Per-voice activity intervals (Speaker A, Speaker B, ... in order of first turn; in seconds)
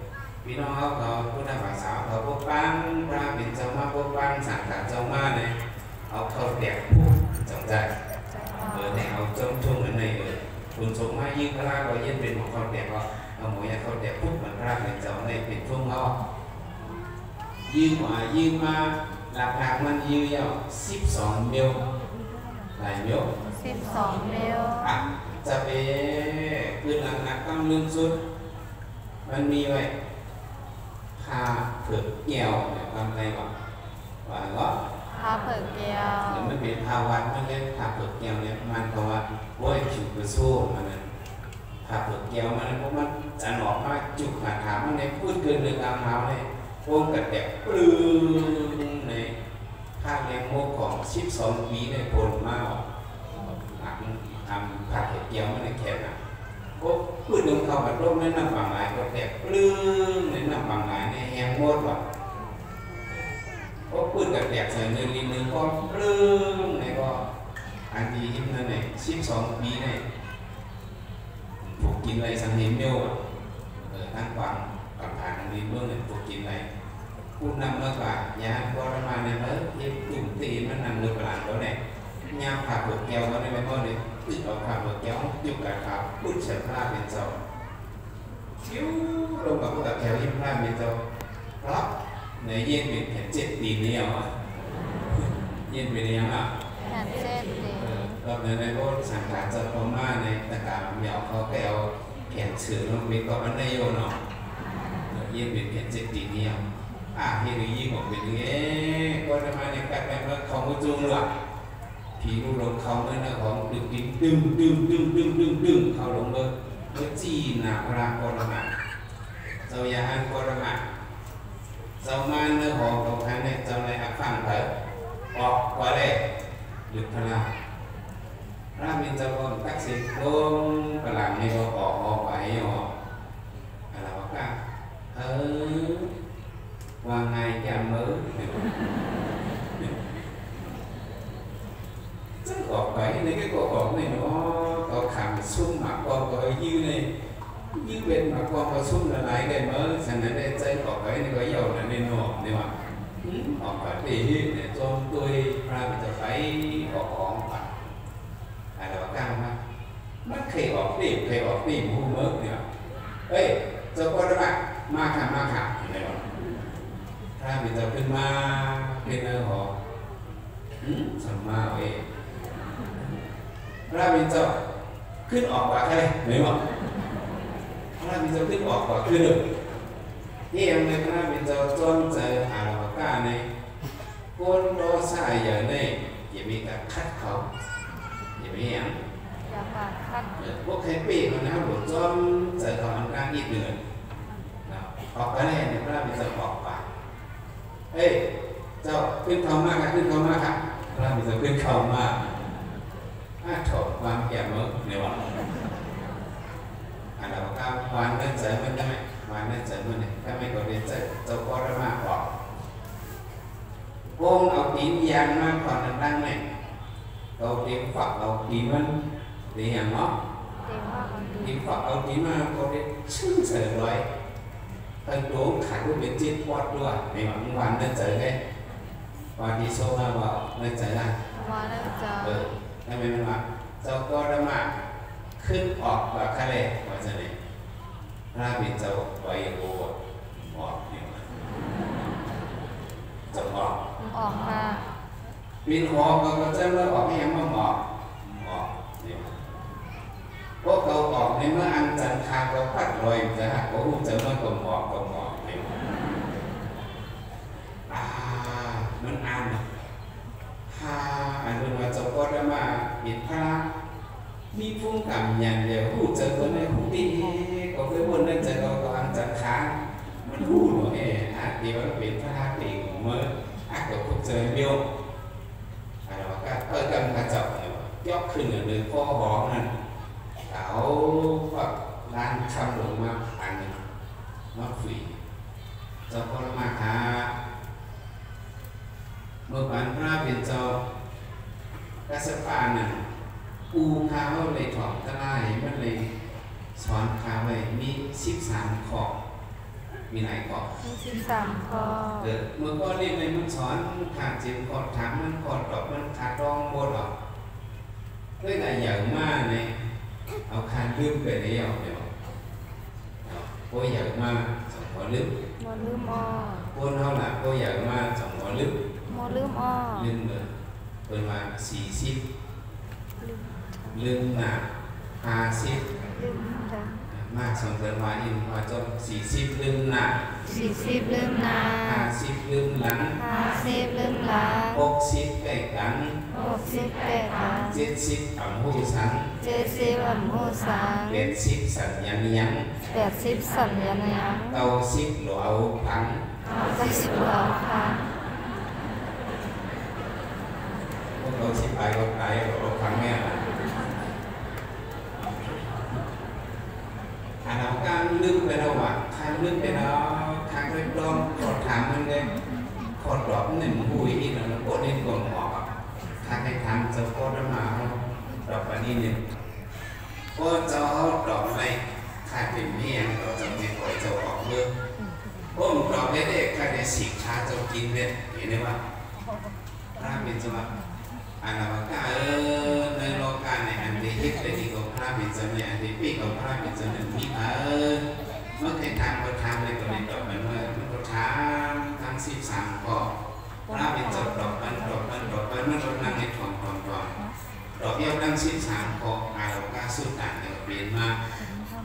Speaker A: 0.4-5.6, 6.1-7.9, 8.7-16.1, 17.7-21.8, 22.8-23.3, 24.8-28.2, 29.3-29.9, 31.2-33.5, 34.2-34.8, 36.3-41.1, 41.9-49.4, 50.0-52.8, 53.4-56.2, 56.8-62.0, 63.9-67.2, 67.9-70.0, 71.6-73.2, 73.9-76.7, 77.4-81.8, 82.3-87.4, 88.6-91.0, 91.6-91.9, 92.4-94.3, 95.1-96.5, 97.8-104.2, 105.1-106.6, 107.1-111.3, 112.2-118.7, 119.7-120.8, 122.0-124.7, 125.3-126.2, 126.9-127.5, 128.8-132.9, 133.9-134.6, 135.1-136.1, 137.0-138.7, 142.4-147.1, 147.7-157.9, 158.8-159.6, 160.2-162.6, 163.3-166.3, 167.4-169.8, 170.8-172.1, 173.9-174.6, 175.3-176.6, 178.0-179.4, 180.5-183.5, 184.4-187.5, 188.4-189.0, 190.4-193.8, 194.7-196.8, 197.9-198.2, 198.8-202.2, 203.4-205.2, 207.2-212.3, 214.2-216.4, 217.4-219.0, 219.5-220.1, 221.4-224.1, 225.1-228.4, 229.4-231.2, 232.2-234.7, 235.4-237.3, 238.3-241.2, 243.3-243.8, 245.7-249.4, 250.6-255.8, 257.9-259.6, 260.7-263.7, 264.5-274.9, 276.1-279.7, 280.5-283.8, 284.5-285.2, 286.1-287.3, 289.5-290.8, 292.1-293.1, 293.7-296.1, 296.8-299.1, 300.1-300.7, 302.2-307.1, 308.4-309.8, 310.5-312.1, 313.2-315.3, 316.7-318.8, 319.9-320.5, 321.1-322.2, 323.9-324.7, 325.2-325.9, 327.1-330.2, 331.8-333.2, 334.7-336.2, 337.7-339.4, 341.1-342.7, 344.5-347.1, 351.2-353.5, 357.4-362.3, 363.0-365.7, 366.2-369.3, 370.4-374.7, 375.6-378.8, 379.9-380.7, 381.4-388.1, 388.6-393.1, 393.7-397.1, 397.8-401.2
Speaker B: 8.3-9.1, 23.4-25.0, 35.1-36.5, 96.8-98.2, 189.5-190.4, 220.6-221.6, 231.3-232.5, 244.0-244.9, 300.8-302.3, 315.6-316.7, 319.1-320.1, 323.2-324.0, 326.1-327.0, 330.4-332.1, 333.2-334.8, 336.3-337.9, 339.4-341.3, 342.9-344.7, 346.6-348.1